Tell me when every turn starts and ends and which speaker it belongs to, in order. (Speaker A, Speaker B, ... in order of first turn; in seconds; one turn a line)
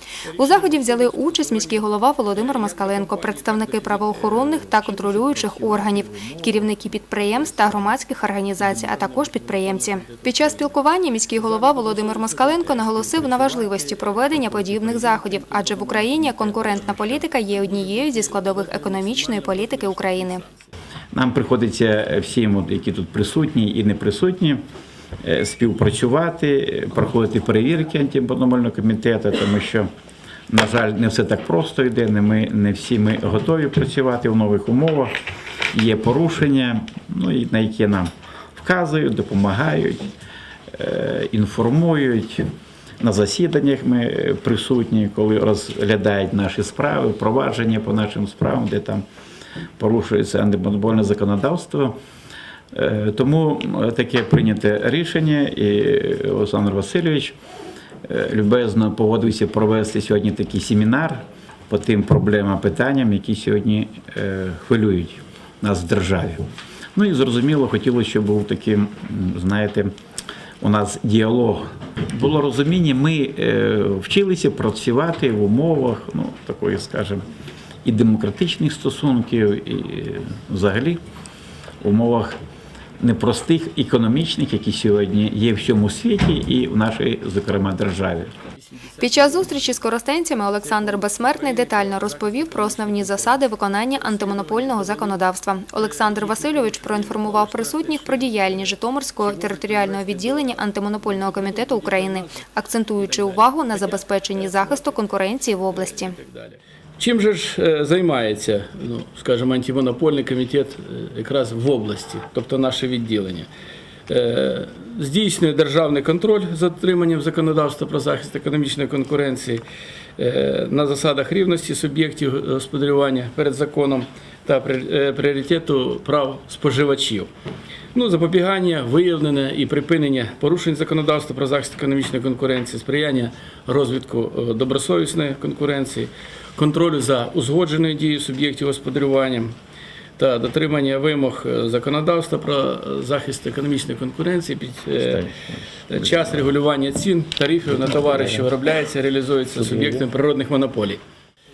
Speaker A: 0.2-5.9
Speaker B: 0.4-20.4
Speaker C: 4.7-6.8
Speaker C: 7.3-7.9
Speaker A: 8.6-20.6
Speaker C: 21.1-24.6
Speaker C: 25.2-29.9
Speaker C: 30.5-35.1
Speaker C: 35.7-40.1
Speaker C: 40.7-42.5
Speaker C: 43.0-49.1
Speaker C: 49.8-52.0
Speaker C: 52.7-57.4
Speaker C: 58.0-69.9
Speaker C: 70.6-77.2
Speaker C: 77.8-81.0
Speaker C: 81.8-82.3
Speaker C: 83.0-88.3
Speaker A: 88.4-89.8
Speaker B: 89.0-106.2
Speaker A: 90.6-102.4
Speaker A: 103.0-105.1
Speaker A: 105.6-113.5
Speaker A: 114.1-119.6
Speaker A: 120.2-127.3
Speaker A: 127.9-139.5
Speaker A: 140.2-145.3
Speaker A: 145.9-151.0